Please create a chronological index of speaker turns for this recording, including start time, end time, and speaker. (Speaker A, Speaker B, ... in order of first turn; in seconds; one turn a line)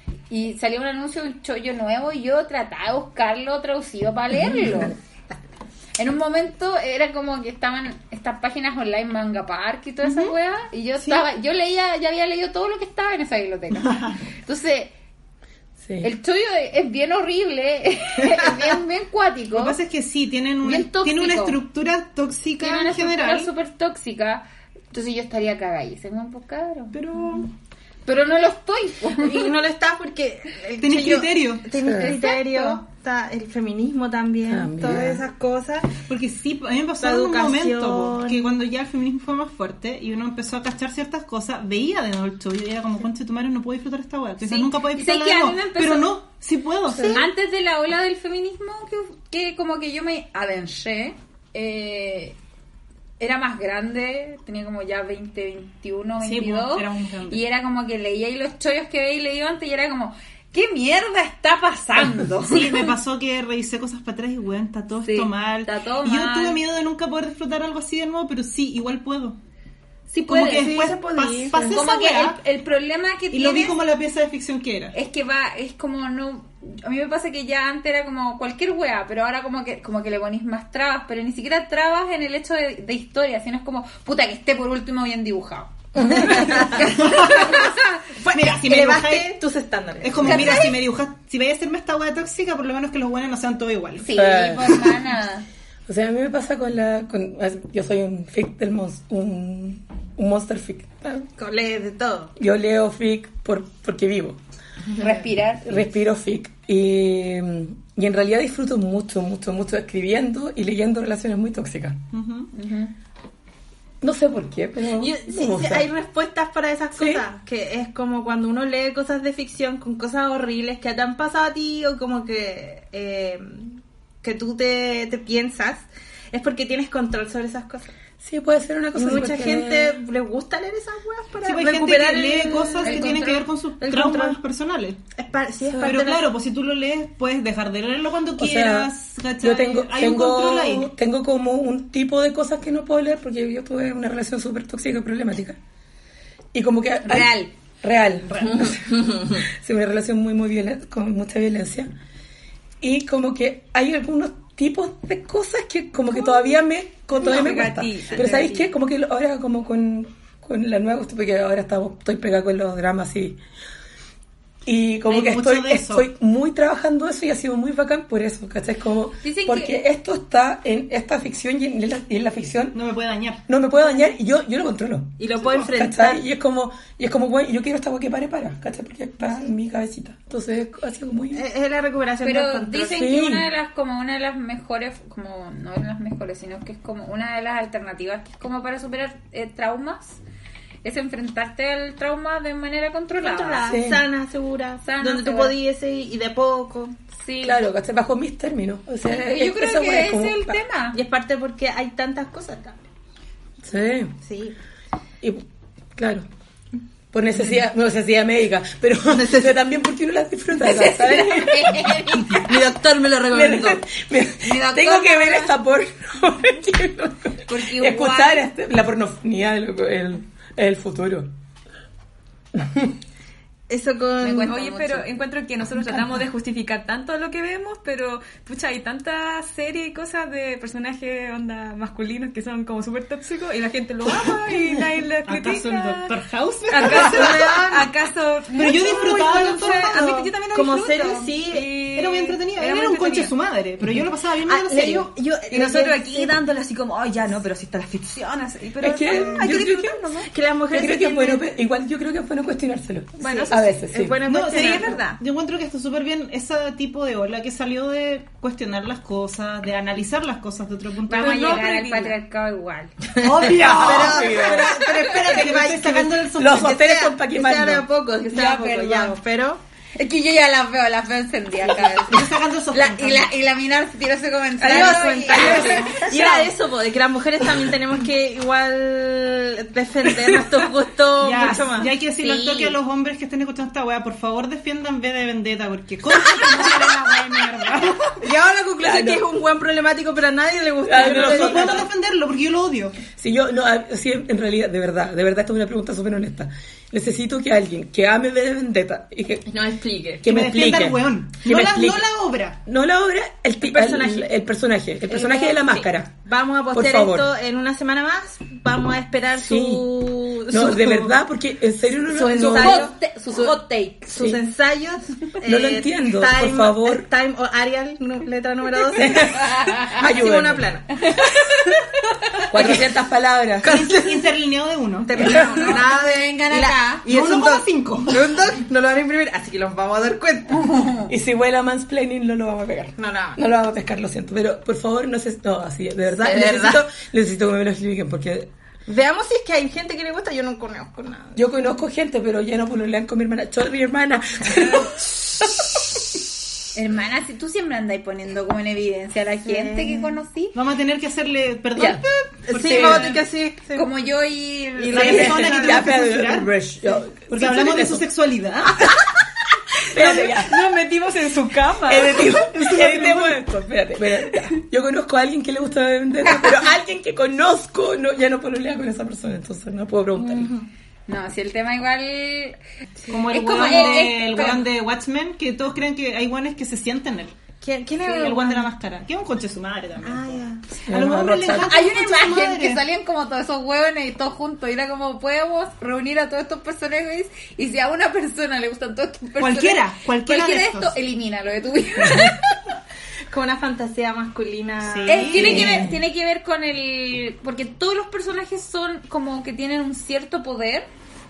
Speaker A: 0.3-5.0
Speaker A: 6.0-14.9
Speaker B: 10.0-10.3
Speaker B: 13.8-14.2
Speaker C: 15.8-16.1
Speaker A: 16.0-19.8
Speaker B: 19.5-23.5
Speaker A: 20.6-21.6
Speaker A: 22.6-27.4
Speaker B: 26.9-27.5
Speaker A: 28.1-29.5
Speaker D: 29.2-36.0
Speaker B: 30.8-31.7
Speaker C: 31.8-32.2
Speaker A: 31.9-32.8
Speaker C: 34.5-35.2
Speaker B: 36.0-47.2
Speaker D: 37.0-38.5
Speaker A: 44.4-46.2
Speaker A: 46.9-52.4
Speaker D: 46.9-47.2
Speaker A: 53.2-62.9
Speaker B: 56.2-57.4
Speaker B: 62.4-69.4
Speaker A: 65.0-66.6
Speaker A: 70.1-70.6
Speaker B: 70.2-72.4
Speaker D: 70.3-71.8
Speaker A: 71.6-73.8
Speaker B: 73.3-75.0
Speaker A: 74.9-88.0
Speaker C: 86.0-86.7
Speaker D: 86.5-86.9
Speaker B: 86.7-87.7
Speaker D: 88.2-90.6
Speaker B: 88.3-89.3
Speaker B: 90.0-94.2
Speaker A: 90.2-90.8
Speaker A: 94.0-95.5
Speaker C: 94.1-95.0
Speaker C: 95.9-101.3
Speaker D: 101.3-102.3
Speaker C: 102.4-104.4
Speaker A: 104.9-105.9
Speaker C: 105.6-112.0
Speaker B: 112.1-112.5
Speaker A: 112.5-112.9
Speaker C: 114.0-115.9
Speaker D: 114.9-127.9
Speaker C: 116.9-117.2
Speaker C: 128.2-130.0
Speaker D: 128.9-133.2
Speaker B: 131.4-135.0
Speaker A: 132.8-133.5
Speaker D: 133.8-134.4
Speaker D: 135.1-136.3
Speaker B: 135.8-140.9
Speaker C: 138.4-145.6
Speaker C: 146.5-151.9
Speaker A: 147.0-147.5
Speaker D: 148.4-149.4
Speaker C: 152.8-163.4
Speaker E: 157.1-158.7
Speaker C: 164.7-172.8
Speaker B: 165.1-166.1
Speaker A: 169.2-169.8
Speaker B: 172.7-173.5
Speaker C: 173.5-181.4
Speaker D: 175.2-176.2
Speaker D: 181.3-183.1
Speaker A: 182.2-190.2
Speaker C: 182.9-183.5
Speaker A: 190.8-193.8
Speaker D: 193.2-196.9
Speaker C: 193.7-194.0
Speaker A: 194.8-195.5
Speaker A: 197.2-197.6
Speaker C: 197.4-200.6
Speaker A: 199.0-201.0
Speaker D: 200.9-202.8
Speaker C: 203.6-204.1
Speaker D: 204.2-204.6
Speaker C: 205.9-206.2
Speaker C: 207.1-212.2
Speaker D: 209.1-209.5
Speaker A: 210.6-212.5
Speaker D: 212.4-213.8
Speaker C: 213.3-221.3
Speaker A: 214.4-215.5
Speaker A: 217.5-218.4
Speaker C: 222.5-222.9
Speaker D: 223.7-224.6
Speaker A: 224.2-225.1
Speaker E: 224.4-236.1
Speaker B: 235.2-237.8
Speaker E: 236.7-243.3
Speaker D: 236.8-237.8
Speaker B: 238.5-240.0
Speaker D: 238.9-241.7
Speaker B: 241.9-245.1
Speaker D: 244.4-246.3
Speaker E: 245.5-250.3
Speaker C: 248.8-250.0
Speaker D: 249.1-249.5
Speaker D: 250.2-251.4
Speaker C: 250.7-254.2
Speaker E: 253.2-253.6
Speaker D: 253.2-255.0
Speaker B: 254.2-261.7
Speaker E: 254.4-255.2
Speaker A: 261.1-262.9
Speaker E: 261.1-262.1
Speaker B: 263.2-266.7
Speaker D: 263.2-269.6
Speaker C: 263.3-264.8
Speaker C: 266.3-267.9
Speaker A: 268.3-269.2
Speaker A: 270.0-276.0
Speaker B: 271.8-273.3
Speaker E: 274.6-276.5
Speaker D: 274.6-281.9
Speaker B: 275.7-276.0
Speaker B: 281.2-288.2
Speaker A: 282.2-282.8
Speaker D: 288.2-291.9
Speaker C: 288.8-289.2
Speaker C: 290.8-291.9
Speaker B: 291.0-293.0
Speaker C: 293.2-299.5
Speaker D: 299.5-300.3
Speaker C: 300.2-302.0
Speaker B: 300.2-302.6
Speaker C: 302.6-306.2
Speaker D: 303.6-304.3
Speaker A: 305.1-305.9
Speaker D: 306.2-311.1
Speaker C: 306.7-307.3
Speaker C: 309.4-312.9
Speaker D: 312.1-321.0
Speaker A: 312.3-314.1
Speaker C: 314.1-314.4
Speaker C: 315.4-317.1
Speaker C: 318.9-320.7
Speaker C: 322.5-323.7
Speaker D: 322.5-322.9
Speaker D: 323.6-324.3
Speaker B: 323.6-325.6
Speaker D: 325.0-330.9
Speaker C: 325.2-325.6
Speaker A: 325.2-327.0
Speaker B: 327.1-328.3
Speaker A: 330.5-331.1
Speaker C: 331.1-338.5
Speaker D: 333.0-333.4
Speaker D: 336.1-336.8
Speaker D: 338.9-341.4
Speaker C: 341.3-345.6
Speaker A: 346.7-350.6
Speaker D: 349.4-350.1
Speaker B: 350.5-353.2
Speaker C: 351.8-353.2
Speaker D: 352.5-353.9
Speaker A: 353.7-355.4
Speaker D: 354.8-355.9
Speaker B: 354.9-356.5
Speaker C: 354.9-358.0
Speaker B: 357.3-358.9
Speaker C: 358.7-359.2
Speaker C: 359.9-360.6
Speaker E: 359.9-363.2
Speaker C: 361.9-370.5
Speaker D: 370.2-370.7
Speaker A: 371.1-372.6
Speaker B: 373.1-377.3
Speaker D: 373.1-373.6
Speaker A: 373.2-374.6
Speaker D: 377.6-378.7
Speaker A: 378.0-378.3
Speaker B: 378.1-382.8
Speaker D: 380.0-380.8
Speaker C: 380.8-381.7
Speaker A: 381.6-392.6
Speaker B: 389.4-391.0
Speaker D: 393.3-395.8
Speaker B: 394.8-395.9
Speaker A: 395.1-400.9
Speaker C: 395.4-395.9